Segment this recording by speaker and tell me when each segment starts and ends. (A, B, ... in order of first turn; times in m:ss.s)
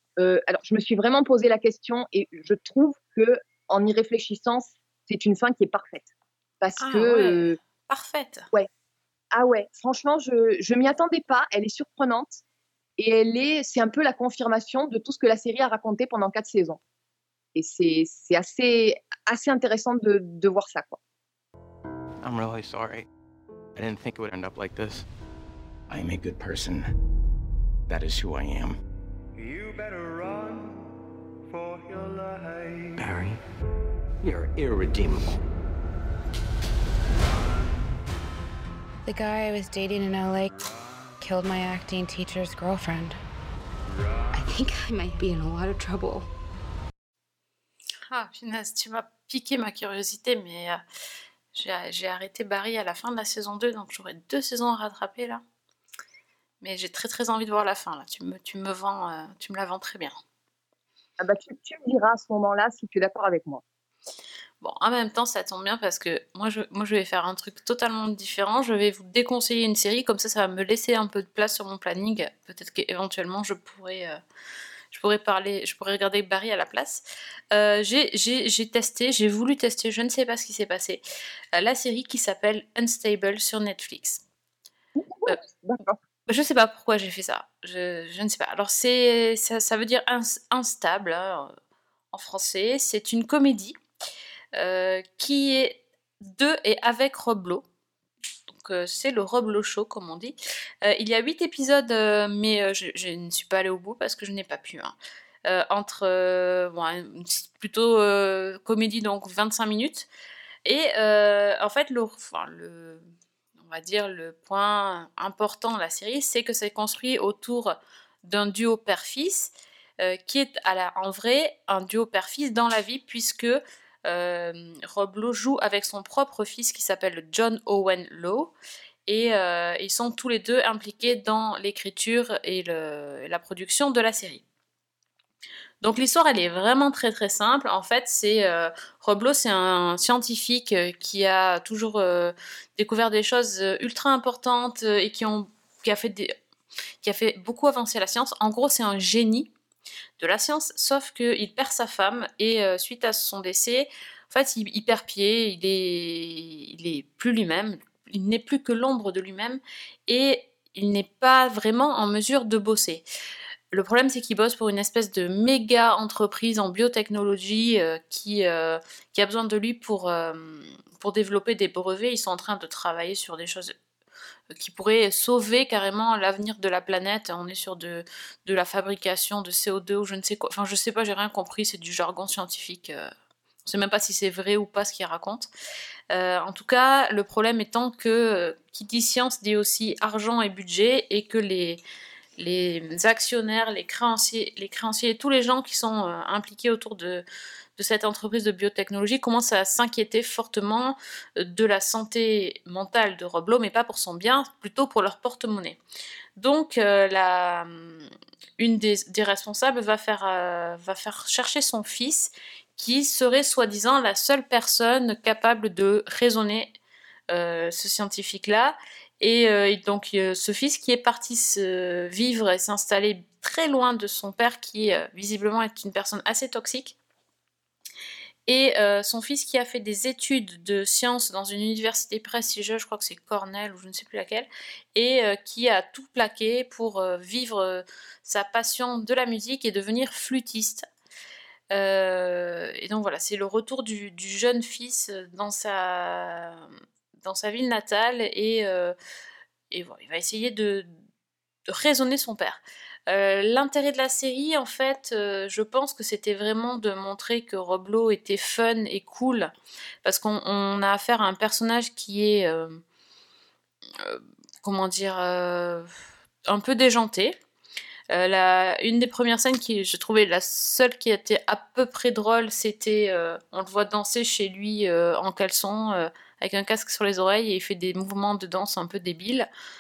0:00.2-0:06.1 A
0:06.6-0:07.6 A
0:06.8-0:08.5 B
0:09.3-0:12.4 A
0:13.0-0:16.8 A
0:17.6-0:21.0 A
0:23.9-0:24.9 C
0:25.9-0:26.8 C
0:27.9-0:28.7 C
0:29.4-0:30.9 D
0:31.5-0:33.0 D
0:39.0-0:40.5 E
0:41.2-0:43.2 E
0:44.4-0:46.3 E
0:48.1-0:50.8 B
0:51.5-0:55.4 B
0:56.6-1:00.2 B
1:01.2-1:03.6 A
1:04.6-1:14.2 B
1:14.9-1:21.0 B
1:21.6-1:24.2 B
1:25.0-1:26.0 A
1:26.3-1:31.6 B
1:32.1-1:33.8 B
1:34.6-1:37.6 B
1:38.5-1:45.0 B
1:45.5-1:50.1 B
1:50.6-1:53.0 B
1:53.6-2:08.5 B
2:09.1-2:14.4 B
2:15.8-2:26.3 B
2:27.0-2:29.5 B
2:30.2-2:43.0 B
2:43.7-2:53.7 B
2:54.6-3:03.1 B
3:03.6-3:05.5 B
3:06.1-3:11.8 B
3:12.4-3:17.2 B
3:17.8-3:25.8 B
3:26.4-3:36.7 B
3:37.3-3:47.0 B
3:48.5-4:00.9 B
4:01.7-4:06.7 B
4:07.2-4:09.0 B
4:09.7-4:10.9 B
4:11.7-4:19.5 B
4:20.0-4:22.8 B
4:24.0-4:25.9 B
4:26.5-4:27.4 B
4:28.1-4:39.5 B